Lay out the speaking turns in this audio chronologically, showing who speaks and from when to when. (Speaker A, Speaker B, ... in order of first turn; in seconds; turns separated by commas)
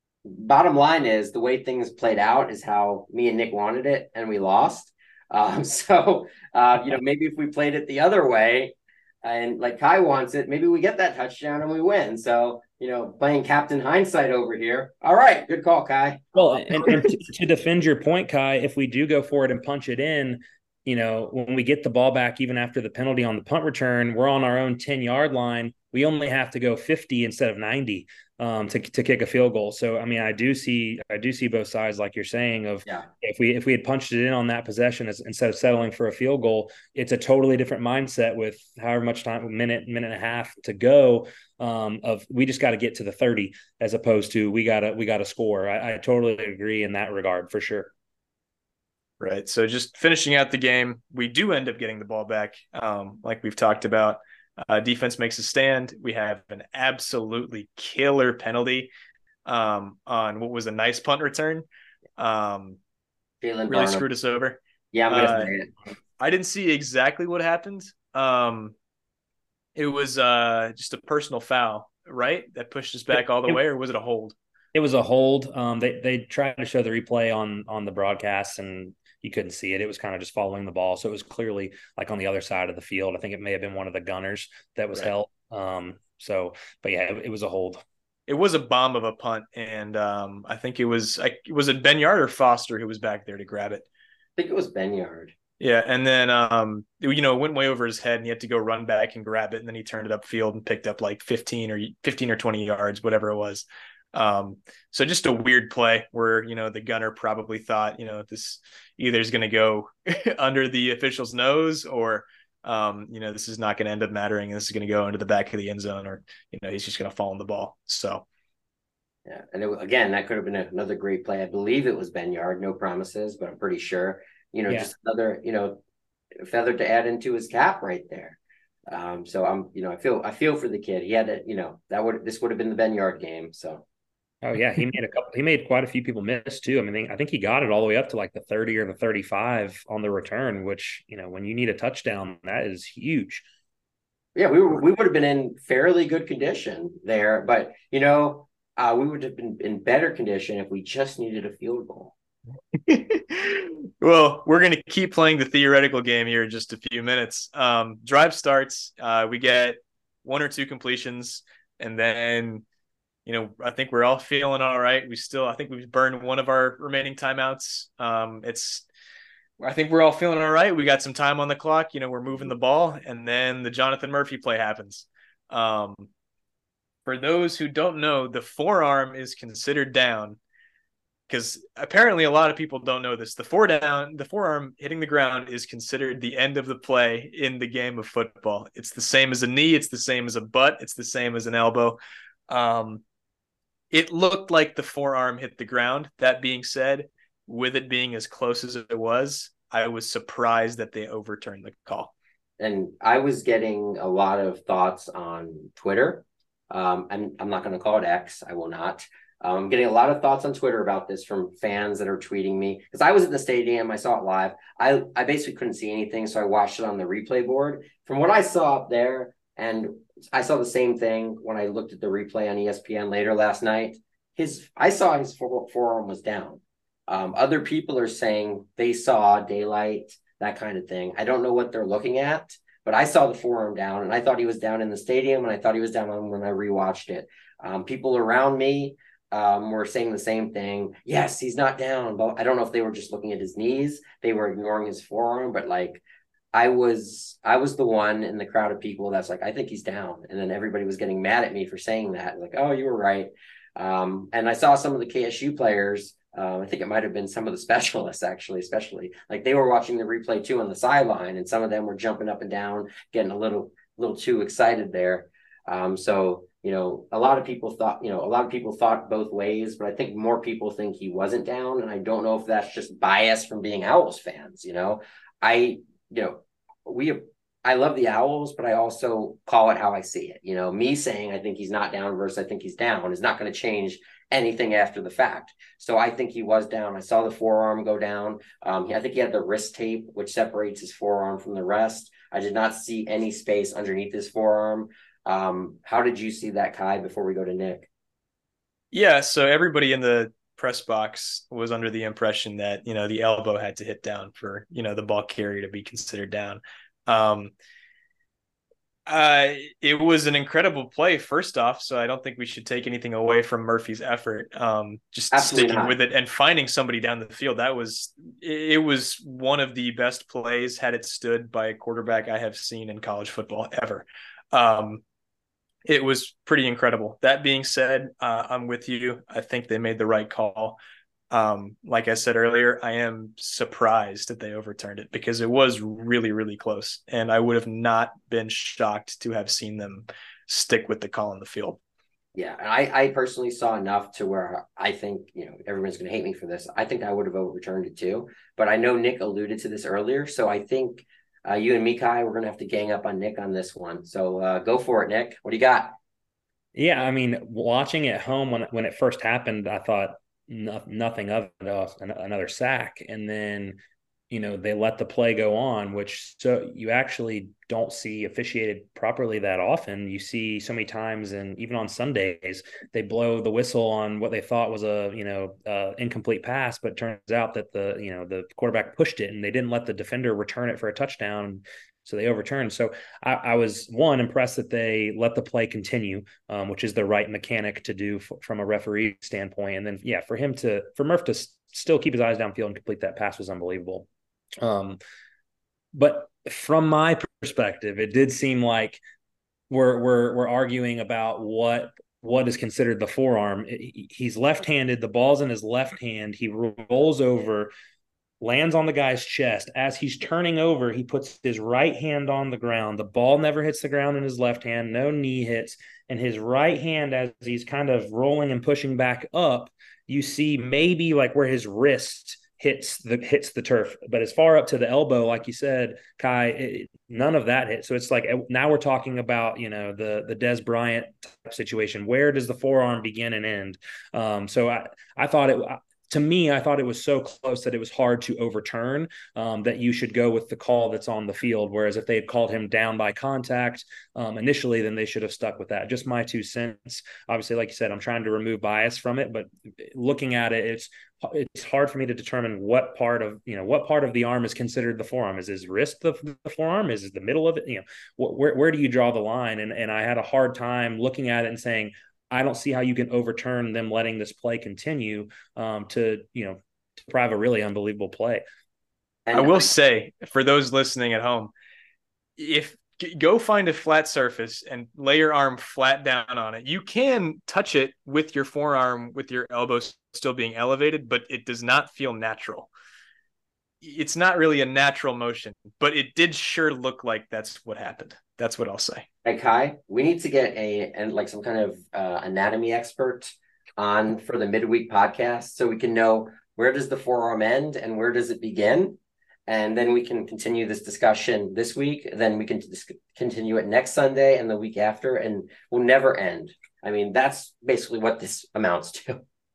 Speaker A: 0.2-17.1, Speaker B: 16.4-47.9, Speaker C: 49.2-58.9, Speaker C: 59.5-61.6, Speaker C: 62.2-62.8, Speaker A: 63.4-64.0, Speaker C: 63.7-65.5, Speaker A: 64.9-65.7, Speaker C: 66.2-68.8, Speaker C: 69.8-74.4, Speaker B: 74.7-87.8, Speaker C: 88.3-93.8, Speaker A: 94.4-95.3, Speaker C: 95.6-118.2, Speaker A: 119.3-125.8, Speaker A: 126.4-133.8, Speaker B: 134.4-143.4, Speaker A: 144.3-152.1, Speaker C: 152.8-162.6, Speaker C: 163.3-168.8, Speaker C: 169.6-176.1, Speaker C: 177.1-180.4, Speaker C: 181.3-193.0, Speaker C: 193.9-202.1, Speaker A: 202.6-246.0, Speaker A: 246.5-297.9, Speaker C: 298.9-307.5, Speaker C: 309.1-325.0, Speaker A: 315.3-315.9, Speaker C: 325.9-330.8, Speaker C: 331.3-341.8, Speaker A: 342.4-355.9, Speaker B: 356.8-363.8, Speaker B: 364.3-394.1, Speaker B: 394.6-395.0, Speaker B: 395.9-399.0, Speaker B: 399.7-407.7, Speaker B: 408.4-468.4, Speaker A: 469.3-469.7, Speaker C: 469.3-471.5, Speaker C: 472.4-482.7, Speaker C: 483.8-489.1, Speaker A: 489.2-509.2